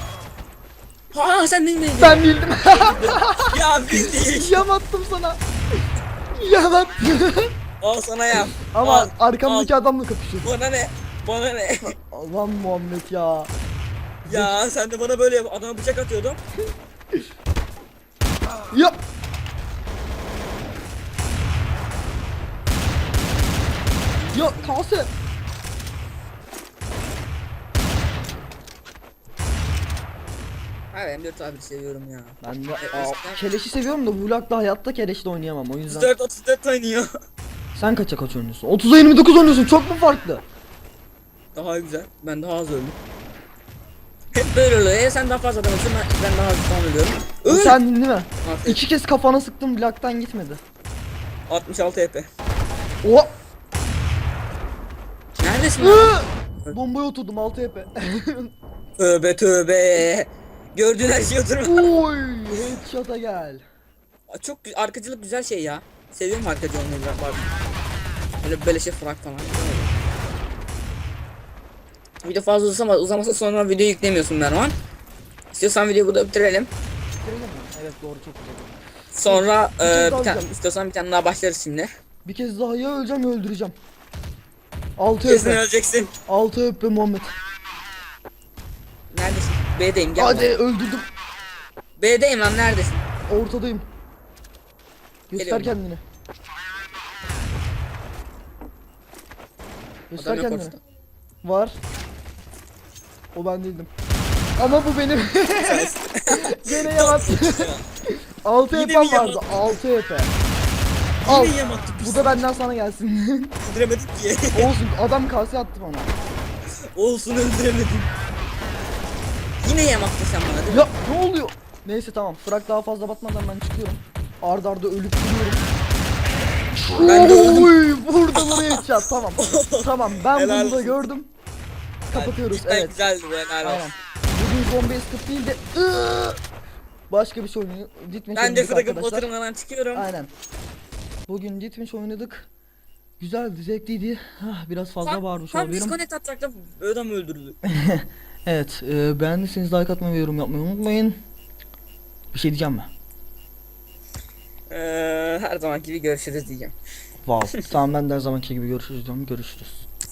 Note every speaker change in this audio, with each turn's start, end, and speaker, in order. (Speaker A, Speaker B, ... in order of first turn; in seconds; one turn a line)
Speaker A: 1.1-4.7
Speaker B: 2.0-5.4
Speaker B: 6.3-7.5
Speaker A: 7.8-9.7
Speaker B: 8.6-10.5
Speaker A: 10.4-11.9
Speaker B: 12.1-13.5
Speaker B: 14.2-14.6
Speaker A: 14.3-16.4
Speaker B: 18.7-19.0
Speaker A: 24.1-24.8
Speaker B: 24.3-25.1
Speaker A: 30.9-33.4
Speaker B: 32.4-36.1
Speaker A: 35.9-37.1
Speaker B: 37.7-40.4
Speaker A: 41.5-43.0
Speaker A: 44.3-47.8
Speaker B: 47.5-50.6
Speaker A: 48.4-48.8
Speaker A: 51.5-52.3
Speaker B: 53.0-53.3
Speaker A: 55.4-56.1
Speaker B: 55.8-58.5
Speaker A: 59.0-61.9
Speaker B: 61.6-63.6
Speaker A: 64.3-67.5
Speaker A: 68.4-70.0
Speaker A: 72.2-74.7
Speaker A: 75.5-76.7
Speaker B: 77.2-80.5
Speaker A: 79.1-81.9
Speaker B: 82.2-83.7
Speaker B: 85.0-85.6
Speaker A: 85.2-86.1
Speaker B: 86.3-87.3
Speaker A: 89.1-90.5
Speaker B: 90.2-91.0
Speaker A: 92.0-93.0
Speaker B: 93.3-93.8
Speaker B: 95.3-96.0
Speaker A: 95.3-95.8
Speaker B: 100.1-100.8
Speaker A: 100.2-100.8
Speaker B: 101.4-101.8
Speaker B: 103.3-103.9
Speaker B: 104.6-107.7
Speaker A: 105.6-107.8
Speaker B: 108.4-110.3
Speaker A: 108.7-109.7
Speaker A: 111.2-112.4
Speaker B: 111.2-113.5
Speaker A: 113.6-114.7
Speaker B: 114.5-116.1
Speaker A: 116.9-118.1
Speaker A: 119.6-120.9
Speaker B: 120.7-125.6
Speaker B: 126.8-131.3
Speaker A: 127.0-127.8
Speaker A: 128.3-128.8
Speaker A: 129.4-131.0
Speaker B: 132.1-132.9
Speaker A: 132.1-133.9
Speaker B: 133.6-136.4
Speaker B: 137.1-139.3
Speaker A: 138.3-140.1
Speaker B: 139.9-140.3
Speaker B: 141.3-142.5
Speaker B: 143.2-146.0
Speaker A: 145.0-147.6
Speaker B: 147.7-151.2
Speaker B: 152.3-152.9
Speaker A: 154.7-156.7
Speaker B: 157.2-159.9